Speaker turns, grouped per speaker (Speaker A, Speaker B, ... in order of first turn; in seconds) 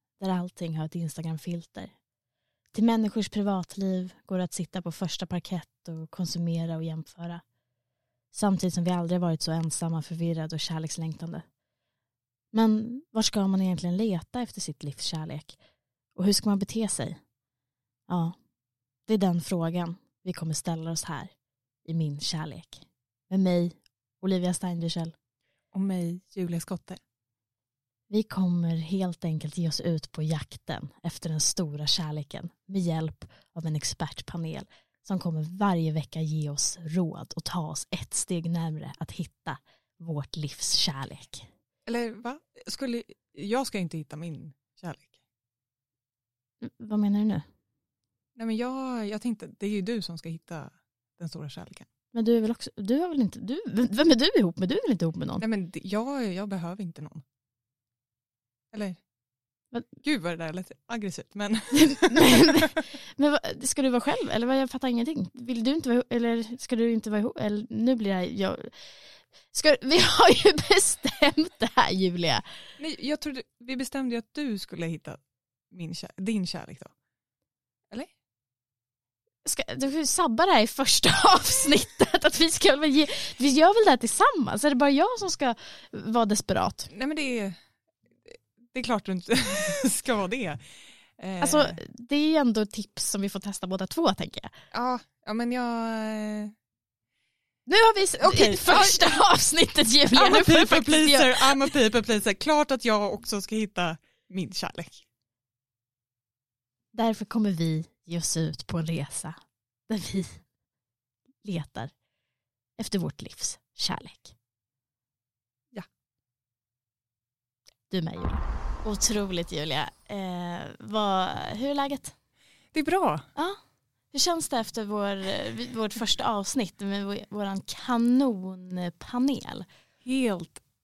Speaker A: 0.2-1.9, 2.7-7.4, 8.3-11.4, 12.5-15.6, 16.2-17.2, 18.1-18.4, 19.1-21.3, 21.9-25.1, 28.1-41.5, 46.6-47.5, 52.1-55.5, 61.7-68.7, 69.5-72.4, 79.5-86.9, 91.4-94.5, 97.7-101.7, 106.9-109.4, 109.9-110.4, 111.4-111.9, 112.8-114.3, 117.9-122.2, 124.1-129.7
Speaker B: 25.7-27.0, 41.9-45.1, 48.4-51.9, 55.4-57.2, 58.7-59.0, 60.0-62.7, 72.8-75.2, 75.7-76.9, 86.9-87.6, 88.3-90.6, 91.2-91.8, 94.7-96.5, 98.2-99.2, 100.1-105.0, 122.7-123.2, 130.0-130.6